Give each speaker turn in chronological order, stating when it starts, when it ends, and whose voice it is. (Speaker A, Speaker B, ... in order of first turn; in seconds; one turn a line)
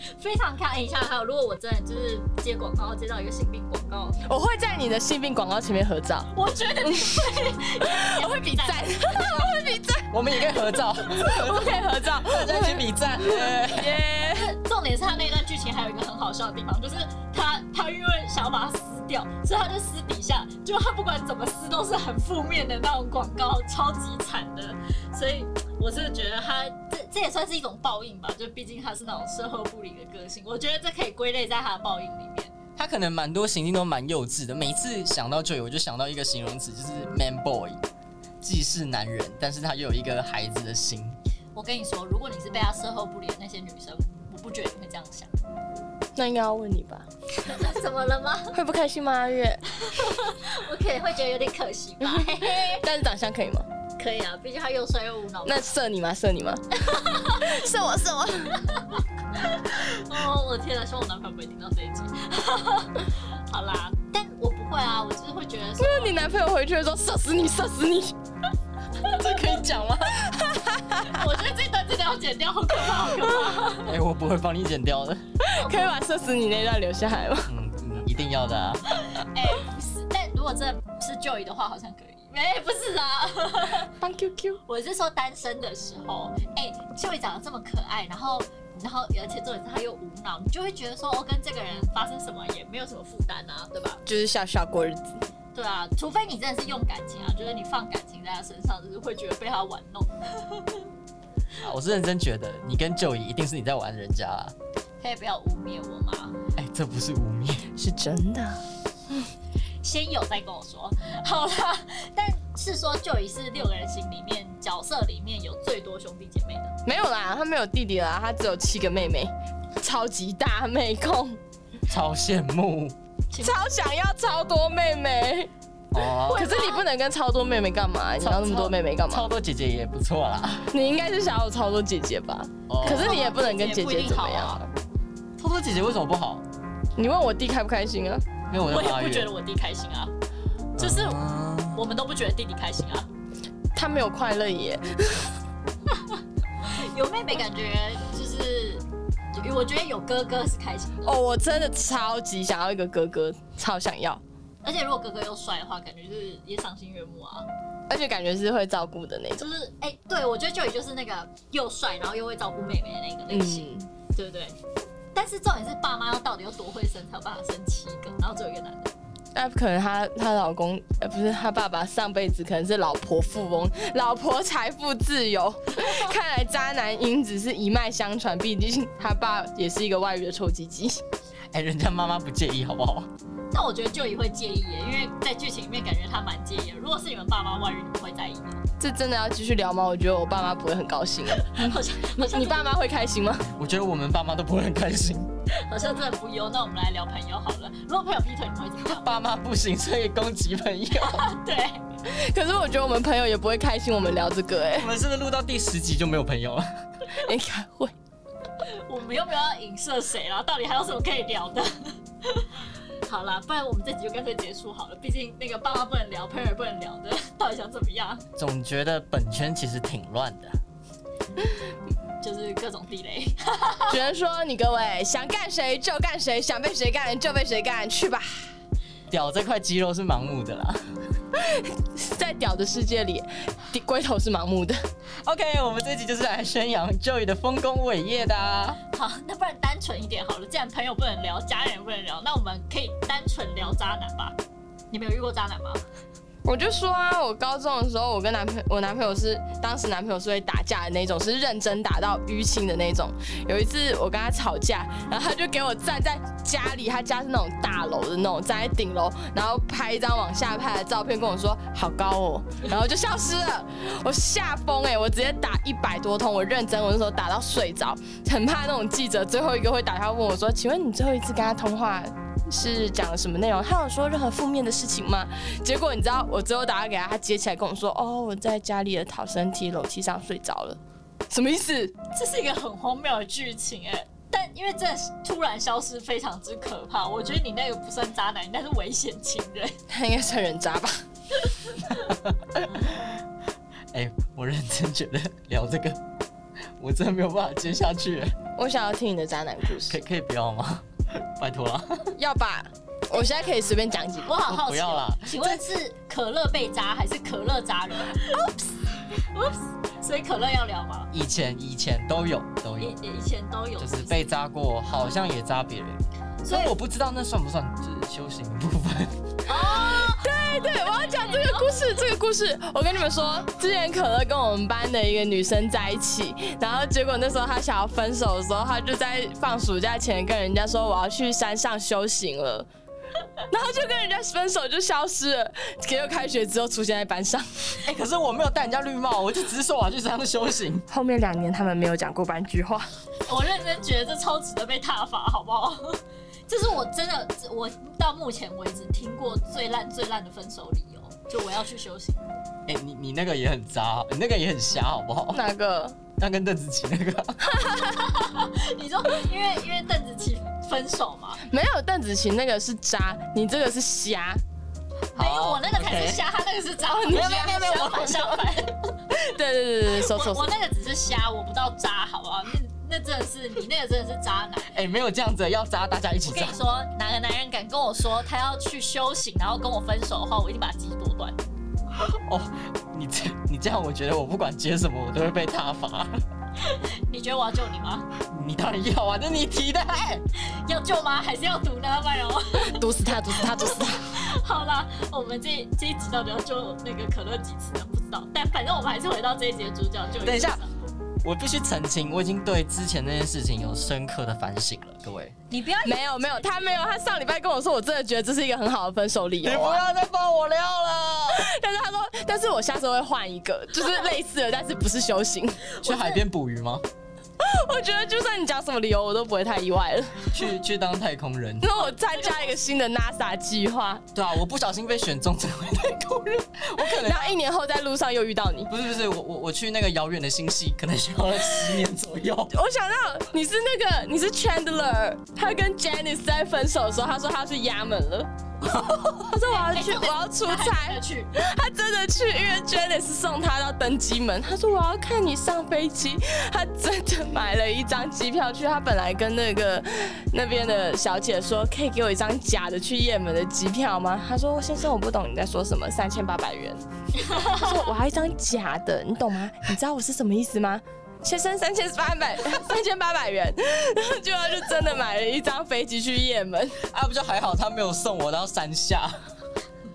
Speaker A: 0.1-4.2
Speaker B: 4.2-6.3
Speaker A: 6.3-9.5
Speaker B: 6.8-14.5
Speaker C: 10.1-14.0
Speaker A: 14.3-32.5
Speaker C: 32.8-37.8
Speaker C: 38.4-41.2
Speaker A: 41.5-45.3
Speaker B: 46.2-47.1
Speaker A: 47.4-48.6
Speaker B: 48.5-49.6
Speaker A: 49.8-52.9
Speaker B: 52.0-53.7
Speaker A: 54.0-55.7
Speaker B: 55.5-58.6
Speaker A: 56.9-57.5
Speaker A: 58.6-66.2
Speaker B: 65.8-68.2
Speaker A: 69.0-69.4
Speaker C: 69.0-70.3
Speaker B: 70.1-71.2
Speaker A: 70.9-73.9
Speaker C: 73.7-75.2
Speaker B: 75.4-77.5
Speaker A: 75.4-75.9
Speaker C: 77.5-78.9
Speaker A: 79.1-83.9
Speaker B: 84.0-84.6
Speaker A: 84.7-94.0
Speaker B: 94.1-95.2
Speaker A: 95.5-100.8
Speaker C: 101.6-104.5
Speaker A: 105.0-106.4
Speaker C: 106.6-107.7
Speaker B: 107.8-109.3
Speaker A: 109.8-116.7
Speaker B: 116.9-121.4
Speaker C: 121.9-123.0
Speaker A: 123.3-123.6
Speaker B: 123.4-125.5
Speaker C: 125.9-126.5
Speaker A: 126.3-126.9
Speaker B: 126.3-129.3
Speaker C: 128.2-130.7
Speaker B: 130.7-134.7
Speaker C: 132.7-133.1
Speaker A: 132.8-134.6
Speaker C: 135.4-136.4
Speaker B: 137.0-138.2
Speaker C: 138.5-139.3
Speaker A: 138.7-140.1
Speaker C: 140.8-141.8
Speaker A: 140.8-141.2
Speaker A: 141.7-143.1
Speaker B: 143.8-145.3
Speaker A: 145.9-151.1
Speaker B: 151.1-154.2
Speaker A: 154.6-157.5
Speaker B: 157.9-159.5
Speaker A: 159.4-164.6
Speaker B: 163.3-163.9
Speaker A: 165.2-168.9
Speaker B: 169.3-181.0
Speaker A: 175.8-176.1
Speaker C: 181.5-183.1
Speaker A: 183.5-188.6
Speaker B: 188.8-193.5
Speaker A: 191.3-192.6
Speaker C: 193.6-195.3
Speaker A: 195.5-199.0
Speaker C: 198.9-201.3
Speaker A: 201.0-201.8
Speaker B: 202.1-204.9
Speaker C: 204.7-206.7
Speaker B: 207.2-207.9
Speaker A: 208.7-218.2
Speaker C: 218.4-220.6
Speaker A: 222.2-224.0
Speaker B: 223.9-228.5
Speaker C: 229.1-230.9
Speaker B: 231.3-234.8
Speaker C: 235.2-238.8
Speaker A: 238.9-244.4
Speaker A: 244.9-245.8
Speaker B: 246.4-280.8
Speaker B: 281.3-281.9
Speaker A: 282.1-289.8
Speaker B: 289.9-291.0
Speaker C: 292.0-293.1
Speaker C: 293.9-296.0
Speaker C: 296.8-298.4
Speaker B: 298.6-300.0
Speaker C: 299.9-302.1
Speaker B: 302.2-304.4
Speaker A: 303.1-303.6
Speaker A: 304.2-308.3
Speaker C: 304.4-305.6
Speaker B: 308.3-309.0
Speaker A: 309.1-311.1
Speaker C: 311.1-312.9
Speaker A: 312.8-314.3
Speaker C: 313.8-319.2
Speaker A: 316.4-316.7
Speaker A: 319.5-322.0
Speaker B: 319.5-332.7
Speaker B: 333.5-337.8
Speaker C: 337.8-340.9
Speaker B: 340.9-342.9
Speaker A: 343.3-352.3
Speaker C: 352.7-355.4
Speaker B: 355.3-356.0
Speaker C: 356.2-357.6
Speaker A: 357.5-361.4
Speaker B: 357.5-358.0
Speaker B: 361.4-364.4
Speaker C: 365.1-366.2
Speaker A: 365.1-368.9
Speaker B: 366.9-367.4
Speaker C: 367.1-368.6
Speaker B: 369.1-370.5
Speaker A: 369.9-374.7
Speaker C: 374.7-376.5
Speaker A: 376.2-381.4
Speaker C: 382.0-386.2
Speaker A: 386.6-388.1
Speaker C: 388.3-390.2
Speaker A: 390.4-400.7
Speaker B: 392.6-394.1
Speaker C: 400.2-400.6
Speaker C: 401.2-405.4
Speaker A: 405.5-406.8
Speaker B: 405.8-409.8
Speaker C: 409.4-411.5
Speaker B: 411.3-415.6
Speaker A: 415.7-416.2
Speaker C: 415.8-416.8
Speaker B: 417.4-420.4
Speaker C: 420.3-421.7
Speaker B: 421.6-424.1
Speaker A: 421.7-422.5
Speaker C: 424.1-427.4
Speaker B: 426.8-428.7
Speaker C: 428.7-432.5
Speaker B: 432.5-438.3
Speaker C: 438.6-439.2
Speaker A: 439.2-441.3
Speaker B: 439.2-466.8
Speaker A: 457.2-457.8
Speaker C: 466.9-469.2